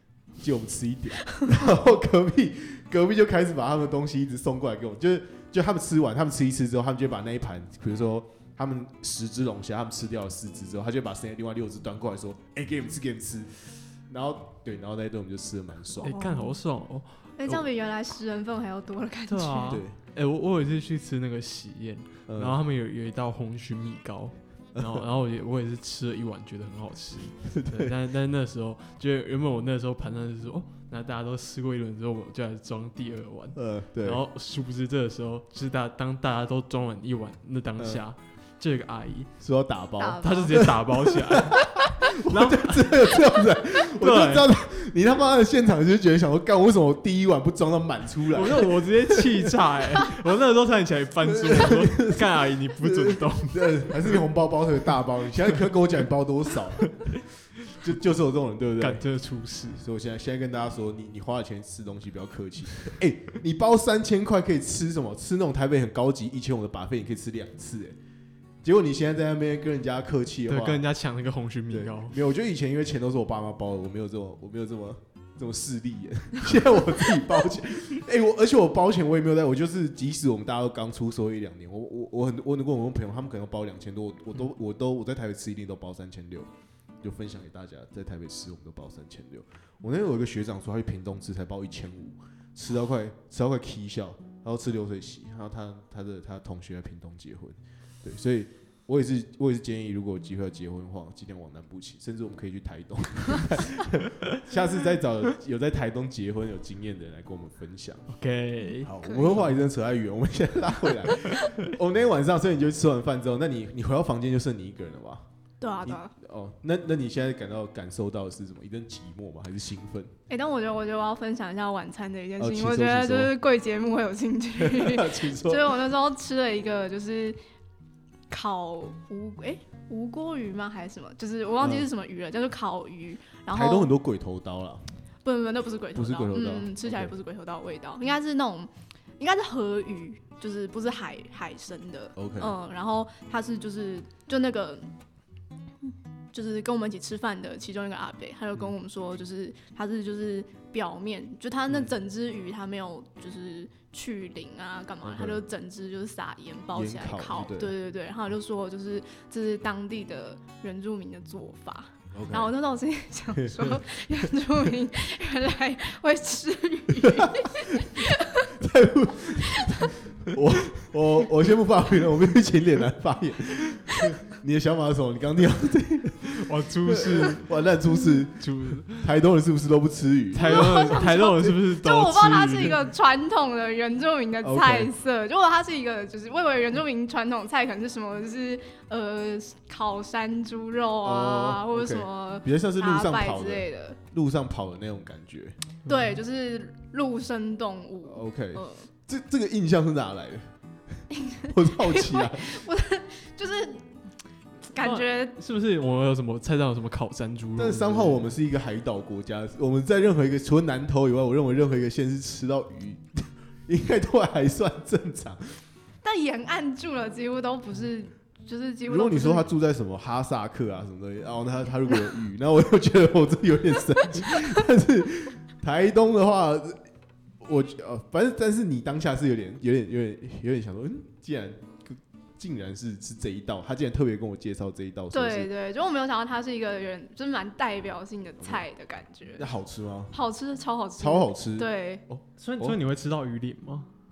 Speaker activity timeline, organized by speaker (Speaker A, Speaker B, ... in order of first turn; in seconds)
Speaker A: 0.4-16.1, 19.7-20.0, 22.3-22.6, 24.7-25.0, 27.5-27.9, 33.5-34.2, 37.8-38.0, 39.4-49.5, 51.2-52.3, 52.8-57.2, 57.7-59.0, 59.7-68.0, 68.6-70.8, 71.7-86.5, 87.0-108.1, 108.8-115.3, 115.8-120.1, 122.4-123.3, 124.6-125.8, 131.6-131.9, 133.5-134.9, 135.9-137.1, 142.2-142.5, 155.0-155.4, 156.7-157.7, 162.1-162.5, 163.3-164.3, 167.0-181.5, 184.4-184.9, 191.0-195.6, 198.1-202.6, 207.6-215.6, 218.8-226.8, 227.4-235.5, 239.4-240.1, 241.0-242.8
Speaker B: 16.0-17.3, 19.3-39.3, 40.2-43.2, 44.0-44.5, 48.3-54.2, 56.8-57.1, 58.8-59.8, 70.5-72.2, 108.1-108.9, 176.3-177.5, 178.3-179.1, 180.3-182.8, 204.8-208.3, 242.4-243.9
Speaker C: 16.0-16.6, 17.4-19.8, 40.0-40.7, 109.0-109.4, 115.6-116.1, 120.3-127.4, 128.3-133.9, 135.2-144.9, 146.3-168.5, 169.5-169.9, 180.4-194.0, 195.8-198.9, 201.1-203.9, 204.7-205.3, 216.0-219.5, 235.1-239.5, 240.1-242.0